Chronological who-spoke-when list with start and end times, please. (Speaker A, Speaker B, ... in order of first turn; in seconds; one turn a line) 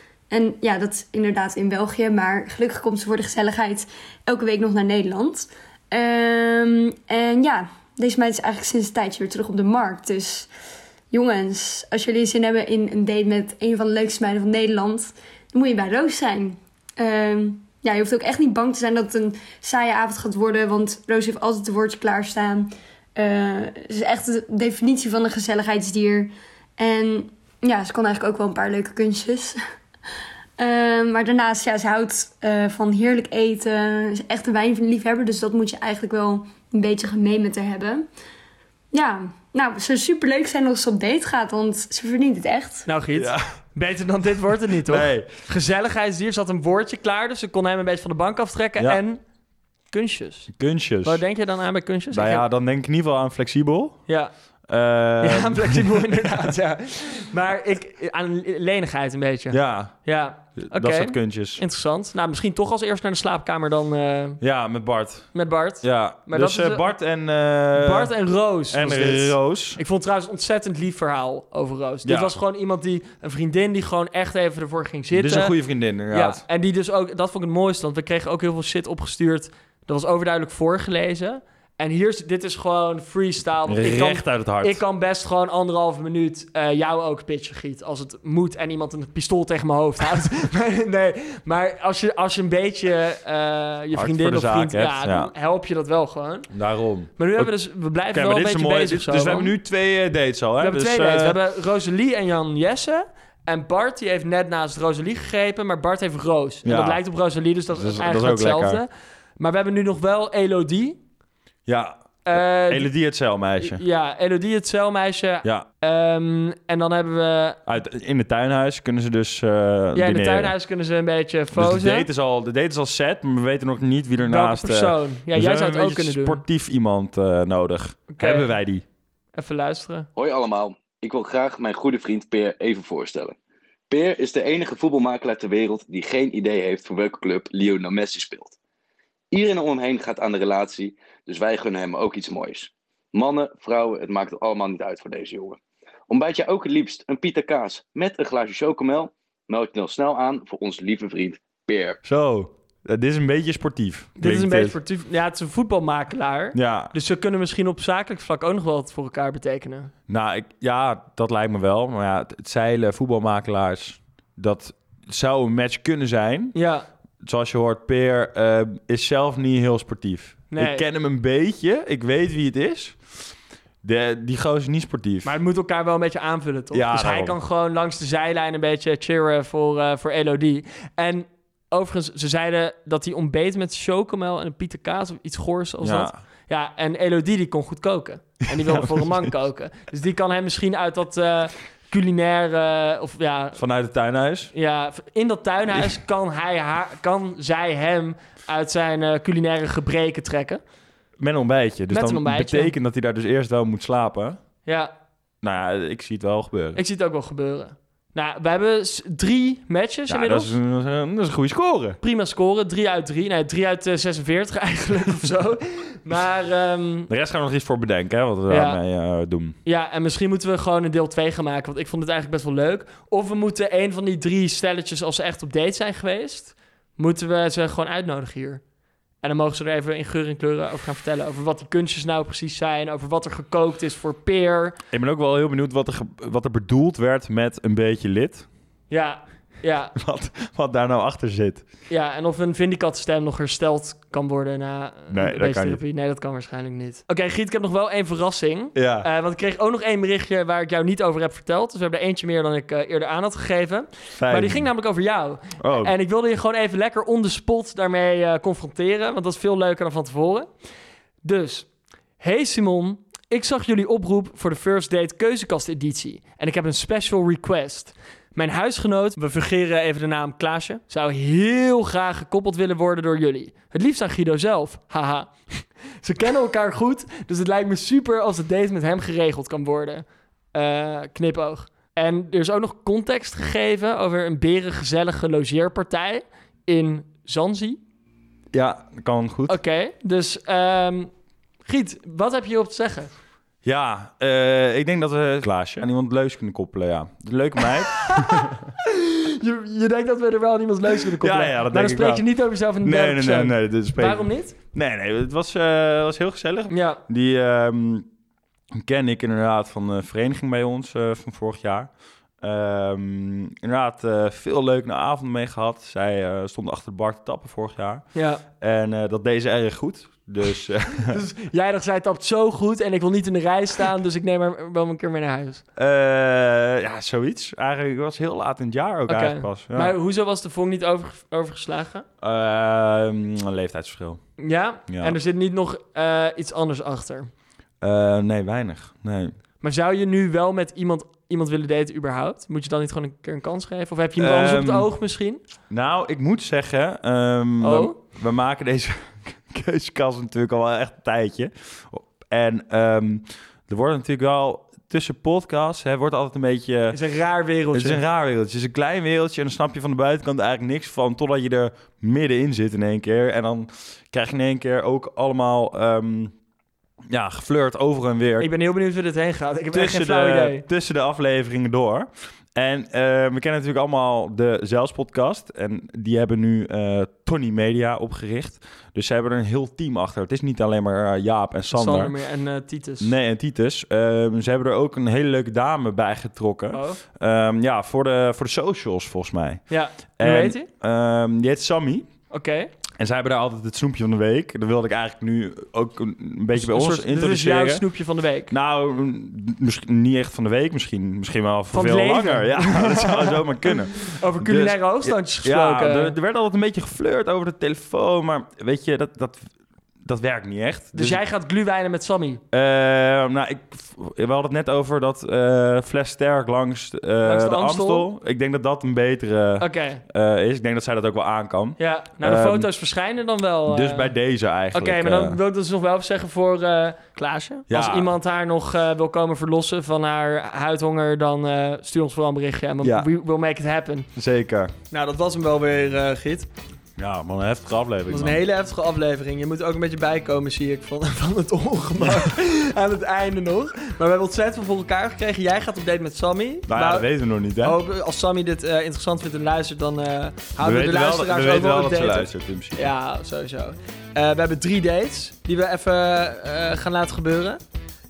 Speaker A: 0.3-10.5
Speaker A: 11.1-29.6
Speaker A: 30.6-38.0
Speaker A: 38.9-42.9
Speaker B: 42.9-49.2
Speaker C: 43.1-43.4
Speaker C: 44.6-45.3
Speaker B: 49.9-50.5
Speaker C: 50.5-51.2
Speaker B: 51.0-52.5
Speaker C: 52.1-54.0
Speaker C: 54.7-56.6
Speaker B: 55.2-64.4
Speaker C: 59.5-60.0
Speaker C: 60.6-61.6
Speaker C: 64.4-68.1
Speaker B: 65.3-66.9
Speaker B: 67.7-75.5
Speaker C: 68.7-69.8
Speaker C: 72.0-72.4
Speaker C: 75.1-76.4
Speaker B: 76.1-96.5
Speaker C: 83.7-84.8
Speaker C: 93.9-95.3
Speaker C: 96.5-97.5
Speaker B: 97.2-99.5
Speaker C: 98.1-101.4
Speaker B: 100.6-111.0
Speaker C: 106.6-107.0
Speaker C: 107.7-108.8
Speaker C: 111.7-113.8
Speaker B: 112.2-112.9
Speaker B: 113.6-117.6
Speaker C: 117.7-120.5
Speaker B: 119.9-122.1
Speaker C: 121.5-128.8
Speaker B: 124.2-126.4
Speaker B: 128.1-128.5
Speaker B: 129.3-130.1
Speaker D: 130.2-133.3
Speaker D: 133.9-138.6
Speaker D: 139.3-152.0
Speaker C: 152.0-154.8
Speaker B: 154.2-159.9
Speaker C: 156.5-156.9
Speaker C: 160.1-166.6
Speaker B: 166.5-166.8
Speaker C: 167.2-173.0
Speaker B: 170.5-170.8
Speaker C: 173.8-175.4
Speaker B: 175.2-193.6
Speaker C: 176.7-177.4
Speaker C: 185.8-186.2
Speaker C: 188.5-189.3
Speaker C: 193.6-194.5
Speaker B: 194.5-200.6
Speaker C: 195.7-196.0
Speaker C: 201.2-204.4
Speaker B: 201.9-202.7
Speaker B: 204.6-204.9
Speaker C: 205.4-206.8
Speaker B: 206.7-210.5
Speaker C: 210.1-212.0
Speaker B: 212.0-217.1
Speaker C: 217.1-219.6
Speaker B: 218.5-218.8
Speaker B: 219.6-228.6
Speaker B: 229.2-234.8
Speaker C: 234.9-238.4
Speaker B: 238.9-239.9
Speaker C: 239.9-241.6
Speaker B: 241.9-260.5
Speaker C: 245.1-245.8
Speaker C: 248.7-249.1
Speaker C: 254.2-254.7
Speaker C: 255.6-255.9
Speaker B: 261.2-261.7
Speaker B: 262.2-287.8
Speaker C: 288.5-289.6
Speaker B: 289.5-291.1
Speaker B: 291.6-293.1
Speaker C: 293.6-298.6
Speaker B: 298.1-304.6
Speaker C: 300.9-302.2
Speaker C: 302.8-308.1
Speaker B: 306.7-307.0
Speaker C: 308.7-311.9
Speaker C: 312.4-318.0
Speaker B: 318.1-318.4
Speaker C: 318.6-321.2
Speaker B: 320.9-325.6
Speaker C: 325.8-329.9
Speaker B: 329.1-332.1
Speaker C: 332.2-334.2
Speaker B: 334.4-337.3
Speaker C: 334.9-335.2
Speaker C: 337.8-339.4
Speaker B: 339.6-345.4
Speaker C: 344.2-344.9
Speaker C: 345.7-357.0
Speaker B: 347.6-348.0
Speaker B: 356.9-358.0
Speaker C: 357.7-366.3
Speaker C: 367.1-368.5
Speaker B: 368.4-370.6
Speaker C: 369.7-382.1
Speaker B: 381.7-383.1
Speaker C: 383.0-389.6
Speaker B: 386.7-387.0
Speaker B: 389.7-390.7
Speaker C: 390.2-392.1
Speaker B: 392.3-392.7
Speaker C: 393.0-397.8
Speaker B: 396.5-398.5
Speaker C: 398.5-409.5
Speaker B: 401.7-406.1
Speaker C: 410.0-411.2
Speaker B: 410.9-412.4
Speaker C: 412.5-422.7
Speaker B: 417.2-418.1
Speaker B: 419.6-420.0
Speaker B: 421.8-424.1
Speaker C: 423.7-425.4
Speaker B: 424.7-434.1
Speaker C: 427.7-428.1
Speaker C: 432.8-433.1
Speaker C: 434.1-434.7
Speaker B: 434.9-436.5
Speaker C: 437.0-438.4
Speaker B: 438.1-447.1
Speaker C: 442.0-442.3
Speaker C: 446.7-447.8
Speaker B: 447.6-457.6
Speaker C: 450.6-452.9